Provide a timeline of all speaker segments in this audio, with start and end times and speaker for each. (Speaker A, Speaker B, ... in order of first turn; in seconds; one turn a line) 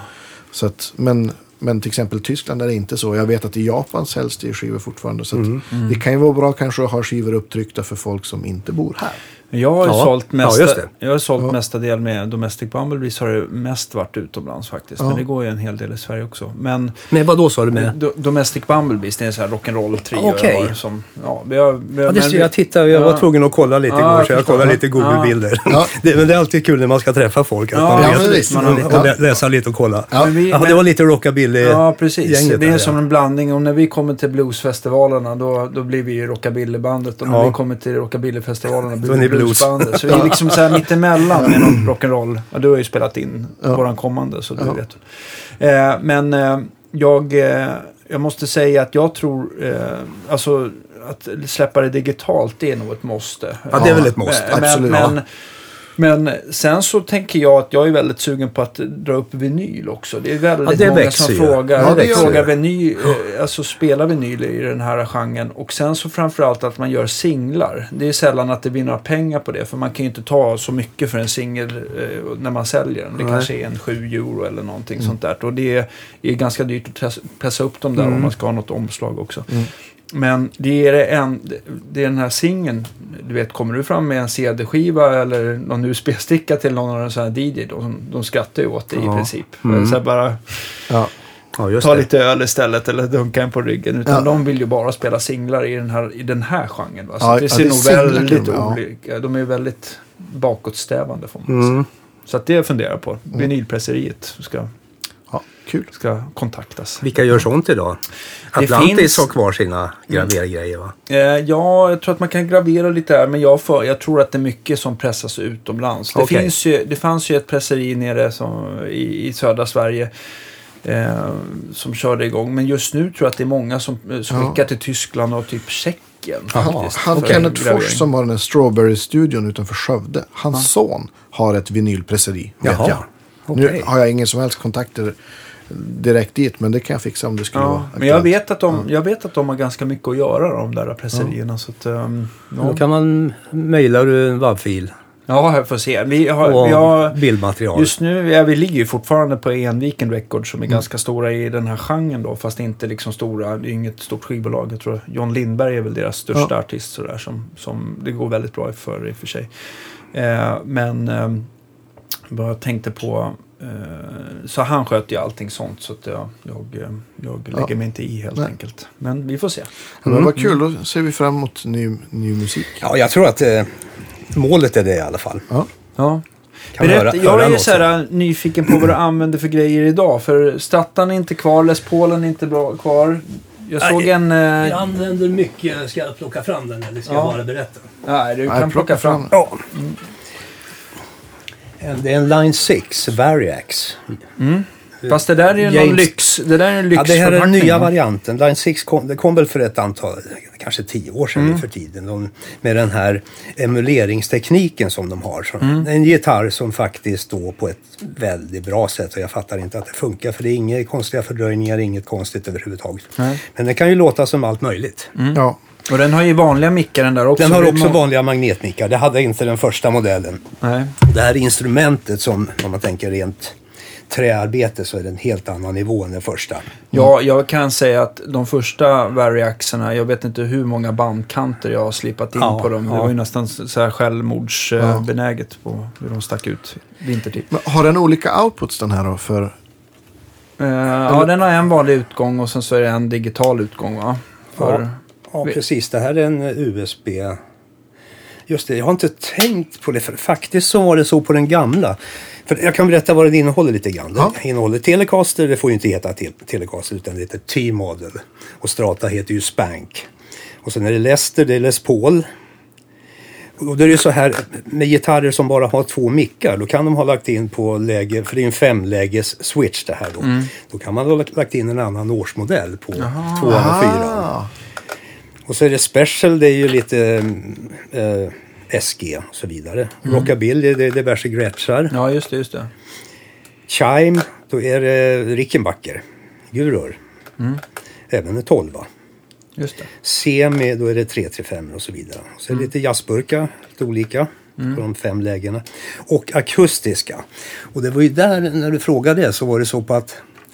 Speaker A: 0.5-9.2
Speaker B: 5.3-5.6
Speaker C: 5.7-6.0
Speaker C: 9.5-17.1
Speaker B: 9.8-10.9
Speaker B: 17.1-17.9
Speaker C: 17.7-23.3
Speaker B: 20.1-20.7
Speaker B: 22.1-33.0
Speaker C: 23.9-25.4
Speaker C: 27.7-29.3
Speaker A: 27.9-29.1
Speaker C: 30.1-30.8
Speaker C: 31.6-55.2
Speaker B: 37.2-37.5
Speaker B: 39.0-40.8
Speaker B: 53.7-55.1
Speaker A: 53.8-55.1
Speaker C: 56.0-90.9
Speaker B: 60.6-62.5
Speaker A: 61.8-62.4
Speaker B: 73.2-73.5
Speaker B: 78.0-78.3
Speaker B: 89.0-90.0
Speaker B: 91.6-92.1
Speaker C: 91.8-104.7
Speaker A: 97.2-98.8
Speaker B: 101.5-101.9
Speaker A: 105.3-105.9
Speaker C: 105.9-107.1
Speaker B: 107.0-108.0
Speaker B: 108.5-110.9
Speaker C: 108.6-109.3
Speaker C: 111.1-120.1
Speaker B: 116.1-116.5
Speaker C: 120.8-128.1
Speaker B: 126.5-127.4
Speaker A: 126.6-133.0
Speaker B: 132.6-133.9
Speaker A: 133.5-138.3
Speaker C: 137.5-142.8
Speaker B: 142.6-144.9
Speaker C: 145.3-147.2
Speaker B: 146.4-147.9
Speaker C: 147.7-161.5
Speaker C: 162.3-169.7
Speaker B: 170.0-170.3
Speaker A: 170.1-172.8
Speaker B: 172.8-175.5
Speaker C: 176.0-176.2
Speaker C: 176.7-184.8
Speaker B: 176.8-177.9
Speaker B: 183.8-187.9
Speaker C: 187.1-187.4
Speaker C: 188.0-190.0
Speaker A: 188.5-189.3
Speaker B: 189.3-189.6
Speaker B: 191.8-194.2
Speaker C: 194.4-197.9
Speaker B: 195.0-196.1
Speaker B: 196.9-215.1
Speaker C: 201.4-201.6
Speaker C: 205.6-205.9
Speaker C: 213.2-213.4
Speaker C: 215.2-218.0
Speaker B: 217.4-220.4
Speaker C: 220.6-220.9
Speaker B: 221.0-223.6
Speaker B: 224.1-226.7
Speaker C: 226.9-237.5
Speaker B: 232.4-233.1
Speaker A: 237.5-239.6
Speaker C: 240.6-245.6
Speaker B: 244.6-247.4
Speaker B: 248.5-260.1
Speaker B: 260.6-262.3
Speaker B: 263.6-274.3
Speaker C: 270.2-270.5
Speaker C: 273.0-273.7
Speaker A: 273.4-274.5
Speaker B: 275.4-281.9
Speaker C: 280.0-280.3
Speaker C: 281.9-282.7
Speaker B: 283.7-287.0
Speaker B: 288.1-288.9
Speaker C: 289.6-289.9
Speaker B: 290.0-300.2